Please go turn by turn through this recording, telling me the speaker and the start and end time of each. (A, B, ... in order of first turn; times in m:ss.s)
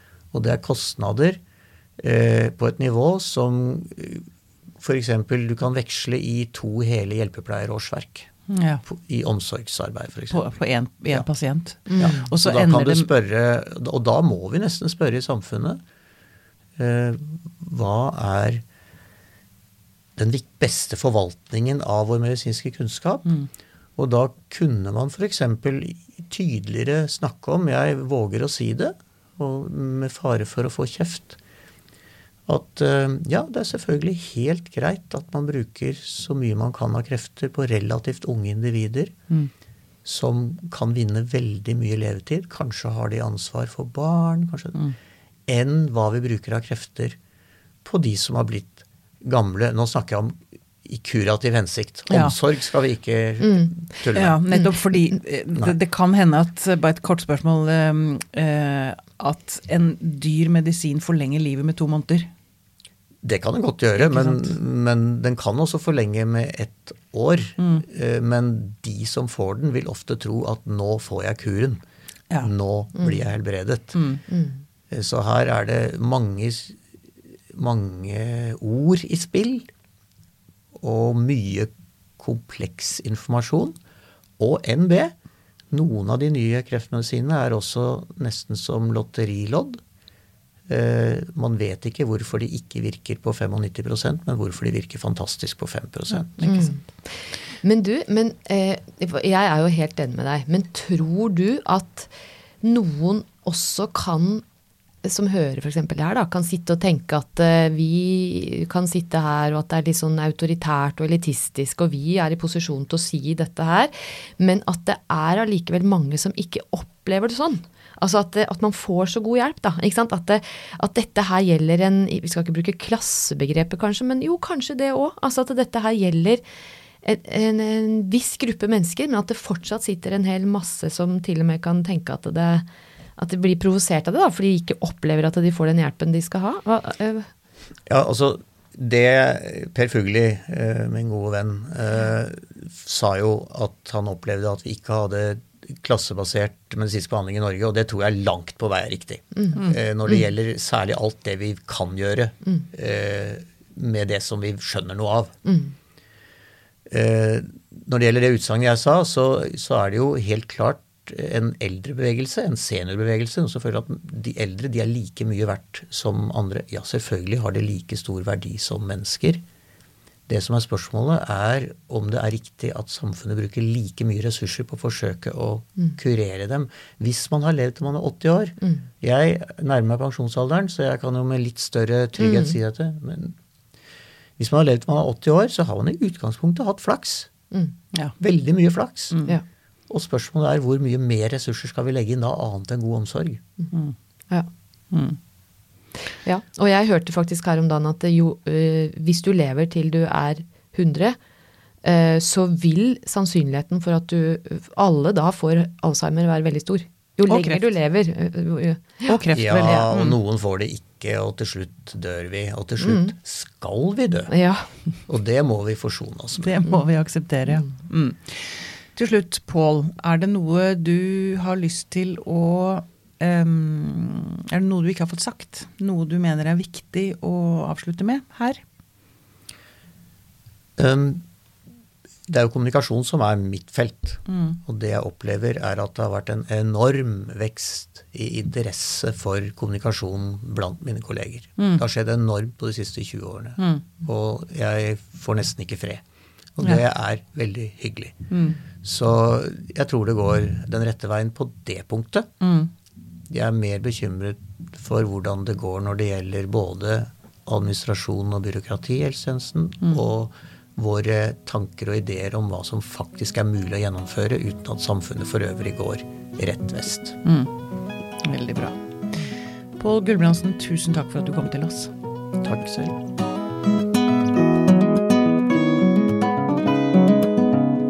0:00.3-0:01.4 A
0:02.0-0:04.3 A
0:04.8-0:08.3 A
0:08.5-0:08.8 B
0:08.8-0:10.5 A
0:10.3-0:13.1 B
0:12.0-0:15.8 A
0:16.8-0:18.6 A
0:20.2-0:23.3 A
0:24.0-0:31.4 A
0:32.5-0:39.1 A
0:40.0-0:44.8 A
0:45.5-0:47.2 A
0:47.8-0:54.4 A
0:52.1-0:52.4 B
0:53.4-0:53.8 C
0:54.1-1:02.3 B
1:03.2-1:11.8 A
1:04.0-1:04.6 B
1:07.6-1:07.8 B
1:12.4-1:14.0 A
1:13.0-1:13.2 C
1:13.9-1:14.2 B
1:14.3-1:14.6 C
1:14.9-1:16.8 A
1:17.5-1:19.7 A
1:20.7-1:23.8 A
1:24.4-1:25.1 A
1:25.7-1:29.8 A
1:30.7-1:36.4 A
1:36.1-1:36.8 B
1:36.4-1:42.1 C
1:42.6-1:44.4 C
1:45.0-2:06.4 C
2:07.0-2:12.6 C
2:13.2-2:17.3 C
2:17.9-2:35.3 A
2:35.4-2:35.7 C
2:36.9-2:49.4 A
2:50.3-3:03.4 A
3:02.2-3:02.6 C
3:04.4-3:07.3 A
3:08.2-3:09.2 A
3:09.1-3:09.4 B
3:09.9-3:13.4 A
3:14.9-3:15.2 B
3:16.2-3:21.2 C
3:21.8-3:29.0 C
3:27.3-3:27.7 B
3:29.0-3:30.2 B
3:29.3-3:34.3 A
3:32.8-3:33.1 C
3:34.3-3:34.7 C
3:35.1-3:36.6 A
3:36.4-3:48.6 B
3:50.8-3:51.2 A
3:52.3-4:06.0 A
3:54.3-3:54.6 B
4:01.6-4:01.8 B
4:03.6-4:03.8 B
4:06.6-4:08.2 A
4:08.3-4:08.6 B
4:08.8-4:12.3 A
4:12.4-4:12.7 B
4:13.3-4:27.2 A
4:27.2-4:27.5 B
4:28.2-4:28.8 B
4:29.8-4:31.9 B
4:32.4-4:33.0 A